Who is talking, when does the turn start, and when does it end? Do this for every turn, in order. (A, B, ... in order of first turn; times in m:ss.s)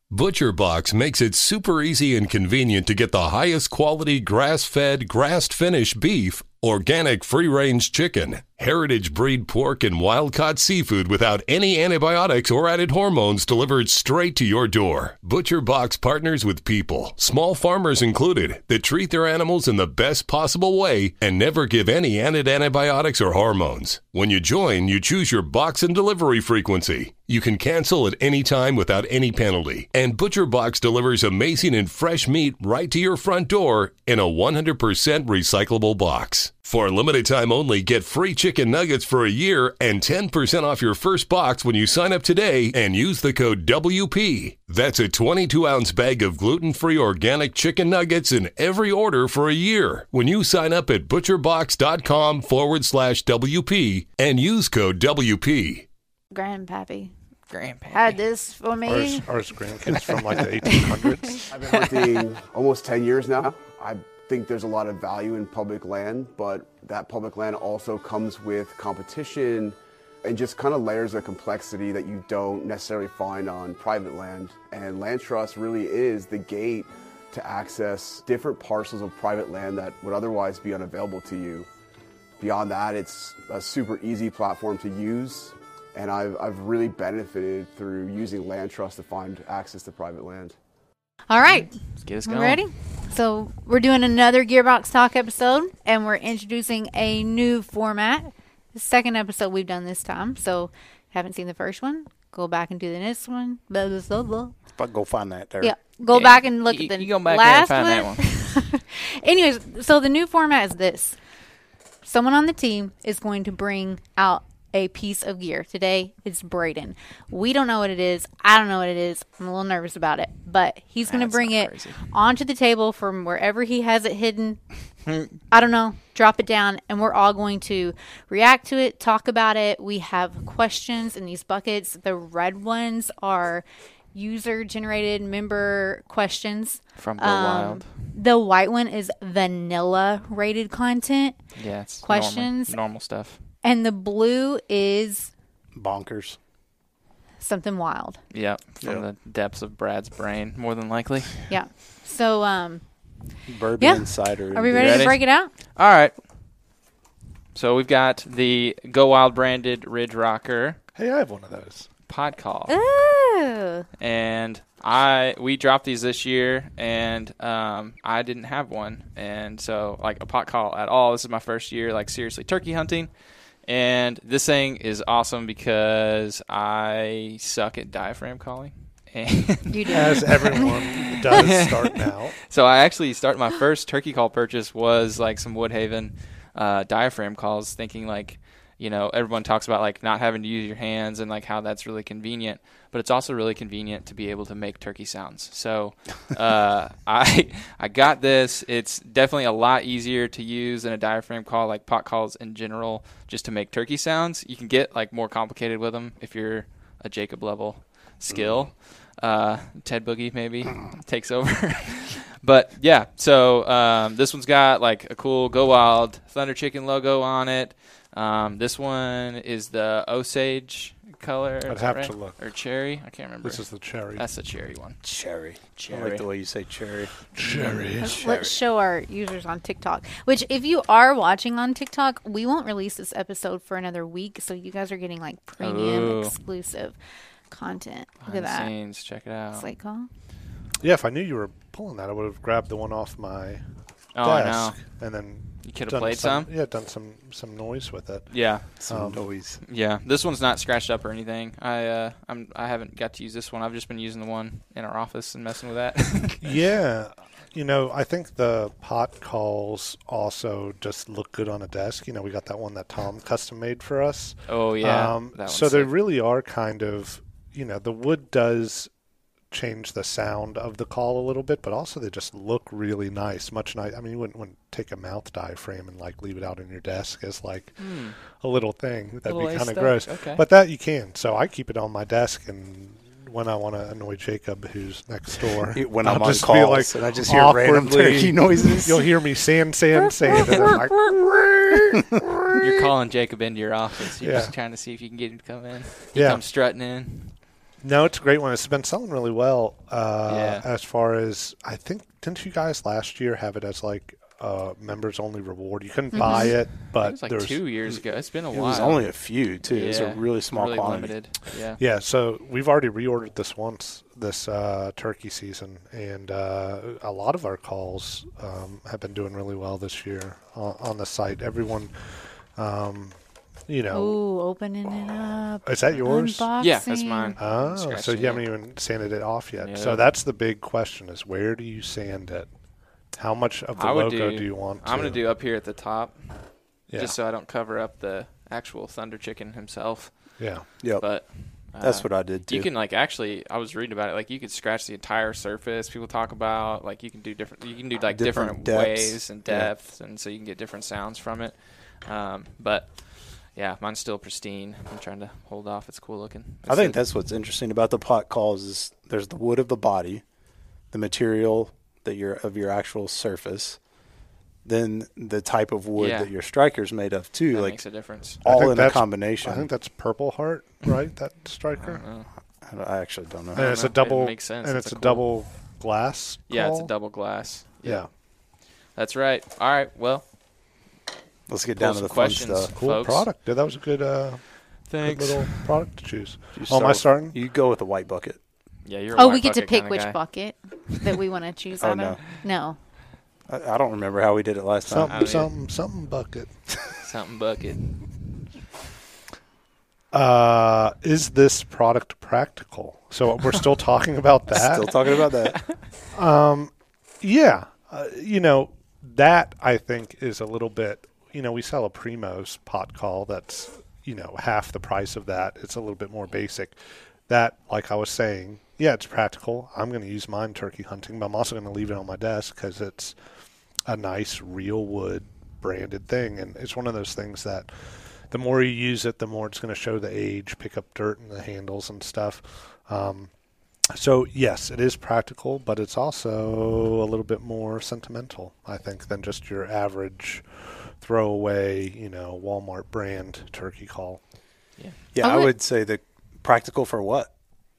0:00.1-0:55.8 A
0:56.3-0:57.1 B
0:57.5-0:58.2 C
0:57.9-0:59.9 B
0:58.8-1:01.4 D
1:01.5-1:21.7 E
1:22.4-1:30.6 E
1:31.3-1:44.6 B
1:31.5-1:32.6 C
1:44.8-1:45.8 F
1:45.6-1:51.2 B
1:46.1-1:48.2 C
1:52.0-2:04.6 B
2:01.0-2:02.0 C
2:05.1-2:05.4 C
2:05.5-2:21.4 B
2:17.0-2:17.9 C
2:21.5-2:23.4 C
2:22.0-2:22.8 B
2:23.6-2:25.3 B
2:25.7-2:26.4 F
2:27.4-2:28.2 B
2:28.3-2:31.4 C
2:31.5-2:32.8 B
2:33.5-2:35.1 F
2:33.8-2:35.5 B
2:34.7-2:36.2 C
2:37.5-2:40.8 C
2:40.9-2:41.9 D
2:42.1-2:42.8 C
2:42.7-2:43.8 B
2:44.0-2:53.1 C
2:53.6-3:45.0 C
2:59.7-3:00.8 B
2:59.9-3:02.4 D
3:41.6-3:42.4 D
3:43.4-3:44.2 D
3:45.0-3:47.1 F
3:45.8-3:46.3 C
3:47.3-3:48.3 D
3:47.4-3:47.9 C
3:48.0-3:57.0 B
3:48.0-3:48.6 F
3:55.6-3:56.3 C
3:57.5-3:58.7 B
3:58.2-3:59.7 C
3:59.5-4:00.1 B
4:00.8-4:03.6 D
4:04.1-4:04.8 C
4:04.2-4:09.2 D
4:05.6-4:06.5 C
4:08.3-4:08.7 C
4:08.8-4:09.6 F
4:09.6-4:16.6 C
4:16.4-4:28.9 D
4:24.5-4:25.9 C
4:29.5-4:52.9 D
4:37.8-4:38.2 C
4:39.2-4:40.4 C
4:45.7-4:49.1 F
4:50.3-4:50.9 C
4:52.6-4:57.4 C
4:54.2-4:54.5 D
4:56.1-4:56.4 D
4:57.8-5:07.6 D
5:00.2-5:00.7 C
5:06.1-5:06.5 B
5:06.1-5:11.8 C
5:08.5-5:11.2 F
5:11.8-5:21.9 D
5:22.6-5:23.2 D
5:23.7-5:24.2 D
5:23.9-5:27.4 B
5:25.6-5:26.5 D
5:26.6-5:28.6 C
5:27.4-5:32.5 D
5:29.6-5:30.2 C
5:33.1-5:35.2 D
5:33.8-5:57.0 C
5:36.9-5:37.2 D
5:40.4-5:40.6 D
5:40.8-5:41.1 F
5:41.8-5:42.7 F
5:48.1-5:49.7 F
5:56.7-6:00.2 F
6:00.9-6:03.8 F
6:04.6-6:07.8 F
6:06.0-6:06.3 C
6:07.5-6:08.4 C
6:08.4-6:09.7 F
6:08.4-6:12.0 D
6:11.8-6:12.3 C
6:12.6-6:13.7 F
6:13.5-6:16.9 D
6:13.5-6:15.3 C
6:16.5-6:20.3 C
6:17.8-6:18.1 D
6:21.5-6:22.7 F
6:21.7-6:23.3 C
6:22.7-6:27.4 D
6:24.9-6:25.7 C
6:26.5-6:28.4 F
6:28.8-6:30.2 C
6:29.1-6:32.8 B
6:31.8-6:32.2 F
6:33.5-6:35.2 F
6:34.8-6:36.5 D
6:35.0-6:35.6 C
6:37.0-6:38.1 C
6:40.1-6:45.0 D
6:44.5-6:45.6 F
6:44.9-6:45.8 C
6:46.1-6:56.8 D
6:57.3-7:03.2 D
7:03.9-7:07.7 D
7:08.3-7:13.3 D
7:13.9-7:24.2 D
7:25.1-7:27.3 F
7:25.2-7:25.5 B